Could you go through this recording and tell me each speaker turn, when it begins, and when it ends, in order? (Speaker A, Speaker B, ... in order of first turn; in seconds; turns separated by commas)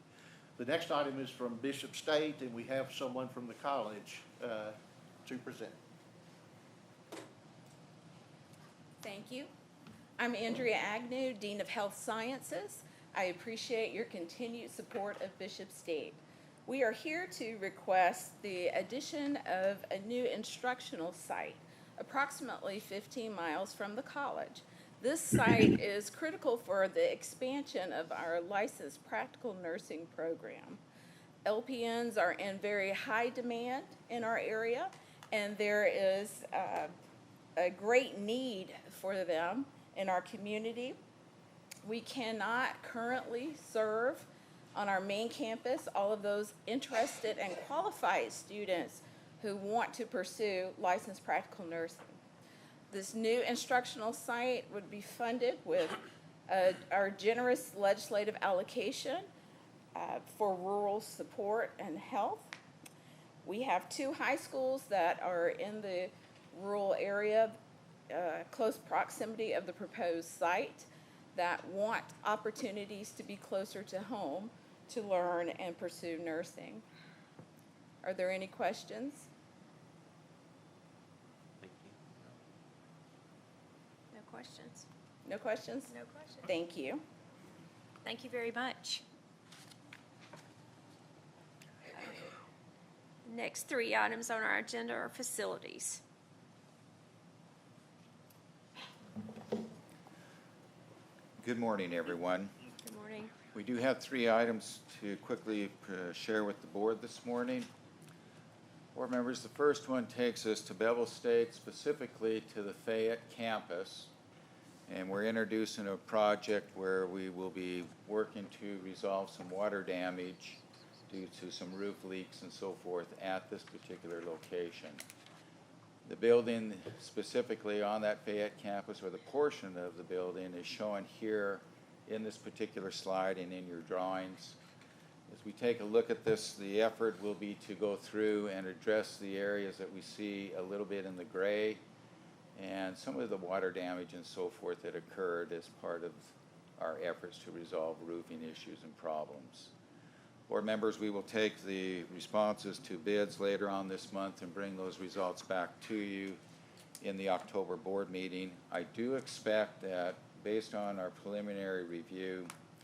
Speaker A: 0.6-5.8, Speaker B: 9.0-9.5, Speaker B: 10.2-30.8, Speaker B: 31.4-36.9, Speaker B: 37.6-41.0, Speaker B: 41.8-52.0, Speaker B: 52.9-59.3, Speaker B: 60.0-62.5, Speaker B: 63.4-67.6, Speaker B: 68.1-76.8, Speaker B: 78.0-79.3, Speaker C: 84.1-84.8, Speaker B: 85.2-87.0, Speaker C: 85.9-86.3, Speaker C: 88.0-89.0, Speaker C: 93.2-96.0, Speaker D: 101.4-102.5, Speaker C: 102.8-103.3, Speaker D: 103.5-107.7, Speaker D: 108.9-114.1, Speaker D: 114.9-125.0, Speaker D: 126.0-134.6, Speaker D: 135.3-141.8, Speaker D: 142.6-149.7, Speaker D: 150.5-156.4, Speaker D: 157.0-162.5